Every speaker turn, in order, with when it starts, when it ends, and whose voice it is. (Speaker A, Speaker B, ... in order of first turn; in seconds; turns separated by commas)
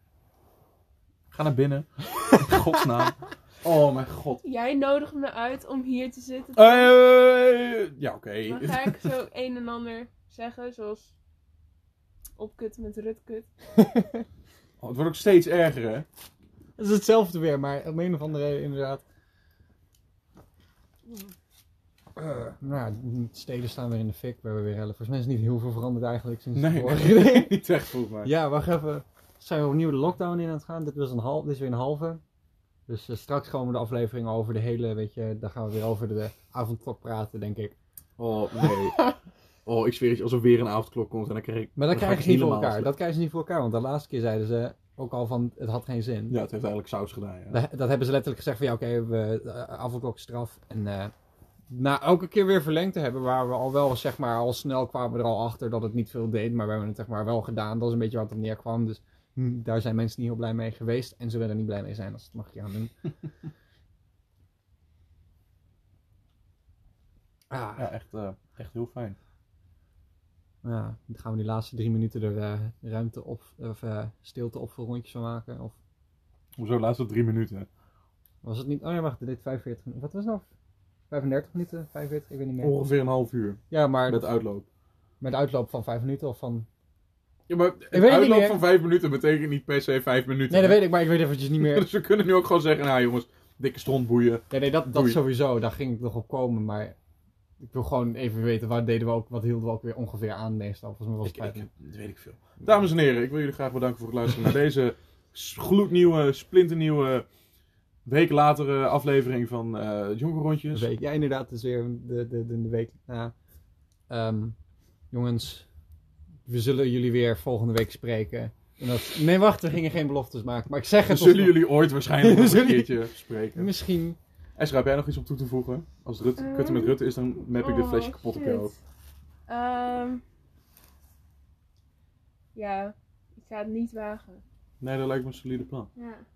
Speaker A: 1.3-4.4, Speaker B: 4.4-6.9, Speaker A: 6.6-9.1, Speaker B: 8.5-11.1, Speaker B: 12.4-13.5, Speaker C: 13.8-14.2, Speaker A: 14.8-16.1, Speaker C: 16.8-19.0, Speaker C: 22.2-27.6, Speaker A: 26.6-28.3, Speaker C: 28.2-32.2, Speaker C: 32.9-37.7, Speaker A: 38.2-39.1, Speaker A: 39.6-42.9, Speaker C: 41.8-46.4, Speaker A: 46.3-47.6, Speaker C: 47.5-51.1, Speaker C: 51.7-62.9, Speaker C: 67.5-67.9, Speaker A: 67.8-69.2, Speaker C: 70.6-75.8, Speaker A: 76.6-77.7, Speaker C: 78.4-80.5, Speaker C: 81.1-82.7, Speaker A: 82.6-84.7, Speaker C: 83.7-84.3, Speaker C: 85.2-86.7, Speaker A: 87.5-90.8, Speaker C: 87.9-88.6, Speaker C: 90.5-91.9, Speaker A: 91.6-95.2, Speaker C: 94.5-97.0, Speaker C: 97.6-101.7, Speaker A: 101.2-107.3, Speaker A: 108.1-110.9, Speaker C: 110.7-113.3, Speaker C: 114.1-114.6, Speaker C: 115.1-115.7, Speaker C: 116.5-123.0, Speaker A: 121.0-123.7, Speaker C: 123.6-124.2, Speaker A: 124.6-128.7, Speaker B: 126.4-127.0, Speaker B: 127.5-128.8, Speaker B: 129.5-130.2, Speaker B: 132.6-134.4, Speaker A: 134.8-135.9, Speaker B: 136.0-136.2